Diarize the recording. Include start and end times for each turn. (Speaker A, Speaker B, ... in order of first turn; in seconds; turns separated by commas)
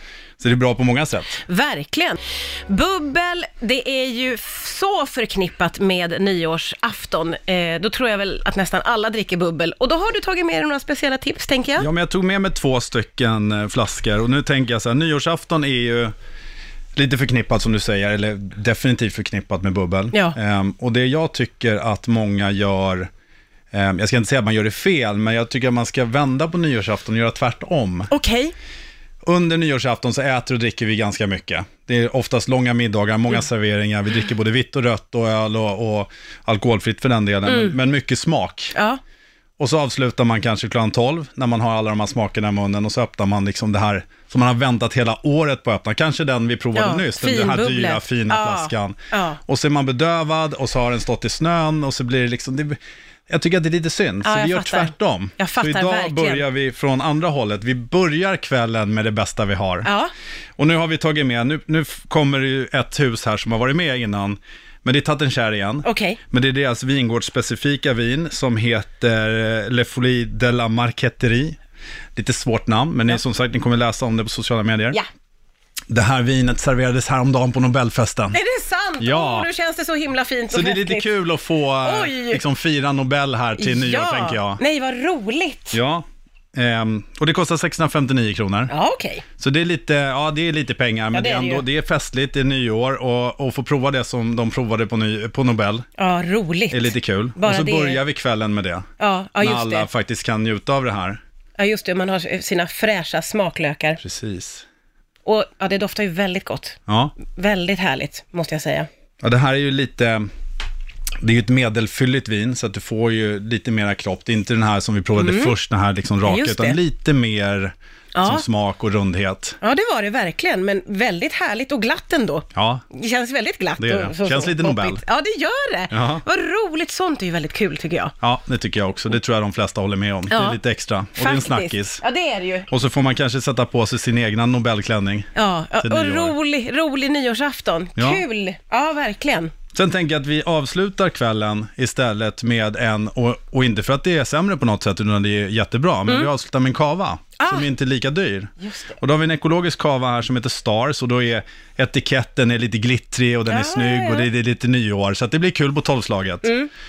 Speaker A: 0.4-1.4, Speaker B: 1.5-11.9, Speaker A: 11.8-16.1, Speaker A: 16.9-23.1, Speaker A: 23.7-28.1, Speaker B: 28.1-28.5, Speaker A: 29.2-38.8, Speaker B: 37.5-37.8, Speaker B: 38.8-39.0, Speaker A: 39.6-59.9, Speaker B: 46.8-49.4, Speaker B: 54.2-56.5, Speaker B: 59.9-60.1, Speaker A: 60.6-71.6, Speaker B: 65.8-66.2, Speaker A: 72.2-75.0, Speaker A: 75.9-78.4, Speaker B: 78.3-81.2, Speaker A: 79.0-79.5, Speaker A: 80.5-84.6, Speaker B: 81.8-82.4, Speaker B: 83.6-85.8, Speaker A: 85.7-88.7, Speaker B: 88.7-89.2, Speaker A: 89.4-95.9, Speaker B: 91.1-91.7, Speaker B: 96.0-98.0, Speaker A: 96.7-98.8, Speaker B: 99.0-99.9, Speaker A: 99.4-101.2, Speaker B: 101.6-104.0, Speaker A: 104.0-104.7, Speaker B: 105.2-108.9, Speaker A: 106.9-107.2, Speaker A: 109.2-110.3, Speaker A: 111.2-119.6, Speaker B: 115.2-115.5, Speaker B: 116.2-116.8, Speaker B: 118.2-118.4, Speaker B: 119.6-128.1, Speaker A: 122.5-122.8, Speaker A: 123.8-125.0, Speaker A: 125.9-126.2, Speaker A: 128.2-132.0, Speaker B: 130.3-130.6, Speaker B: 131.2-132.7, Speaker A: 132.7-136.4, Speaker B: 135.3-139.5, Speaker A: 137.9-138.2, Speaker A: 139.7-156.6, Speaker B: 147.4-147.7, Speaker B: 148.6-148.9, Speaker B: 153.5-154.3, Speaker B: 156.4-156.7